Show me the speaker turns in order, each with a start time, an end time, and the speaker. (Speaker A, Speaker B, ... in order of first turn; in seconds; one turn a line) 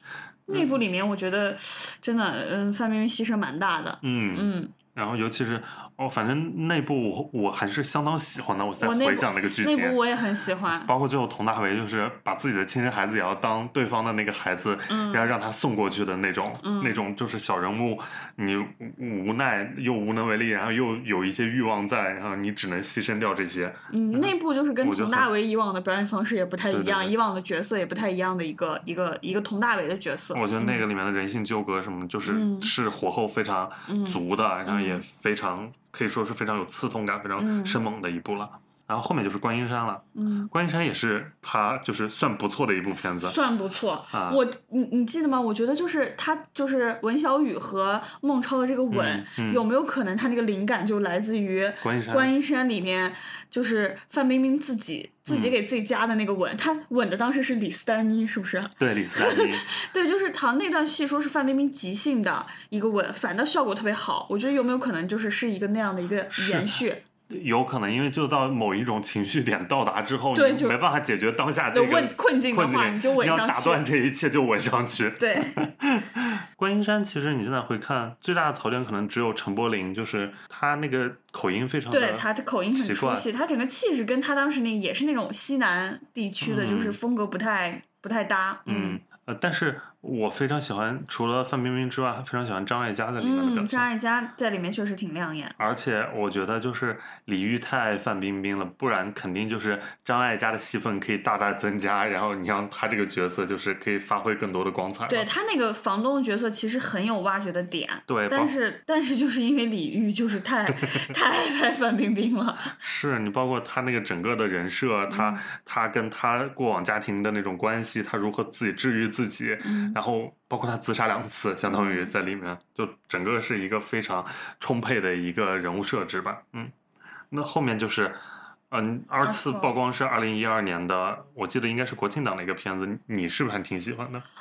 Speaker A: 0.5-4.7
Speaker B: 4.0-10.0
Speaker A: 8.8-10.9
Speaker B: 10.6-25.3
Speaker A: 14.9-15.3
Speaker A: 16.6-17.0
Speaker A: 23.9-30.8
Speaker B: 26.7-27.1
Speaker B: 30.3-43.4
Speaker A: 32.2-32.7
Speaker A: 33.9-35.0
Speaker A: 37.4-37.8
Speaker A: 40.1-40.5
Speaker A: 43.2-67.0
Speaker B: 44.1-44.4
Speaker B: 48.9-49.6
Speaker B: 51.8-52.3
Speaker B: 55.3-55.5
Speaker B: 58.8-59.6
Speaker B: 66.3-83.3
Speaker A: 70.3-70.8
Speaker A: 71.7-73.8
Speaker A: 75.2-75.6
Speaker A: 81.9-89.0
Speaker B: 86.4-87.0
Speaker B: 88.7-93.9
Speaker A: 93.2-95.6
Speaker B: 95.6-105.3
Speaker A: 105.1-112.8
Speaker B: 108.1-108.5
Speaker B: 112.8-126.7
Speaker A: 115.1-115.4
Speaker A: 119.6-120.0
Speaker A: 121.7-122.1
Speaker B: 127.3-128.2
Speaker B: 128.7-134.2
Speaker A: 129.2-129.7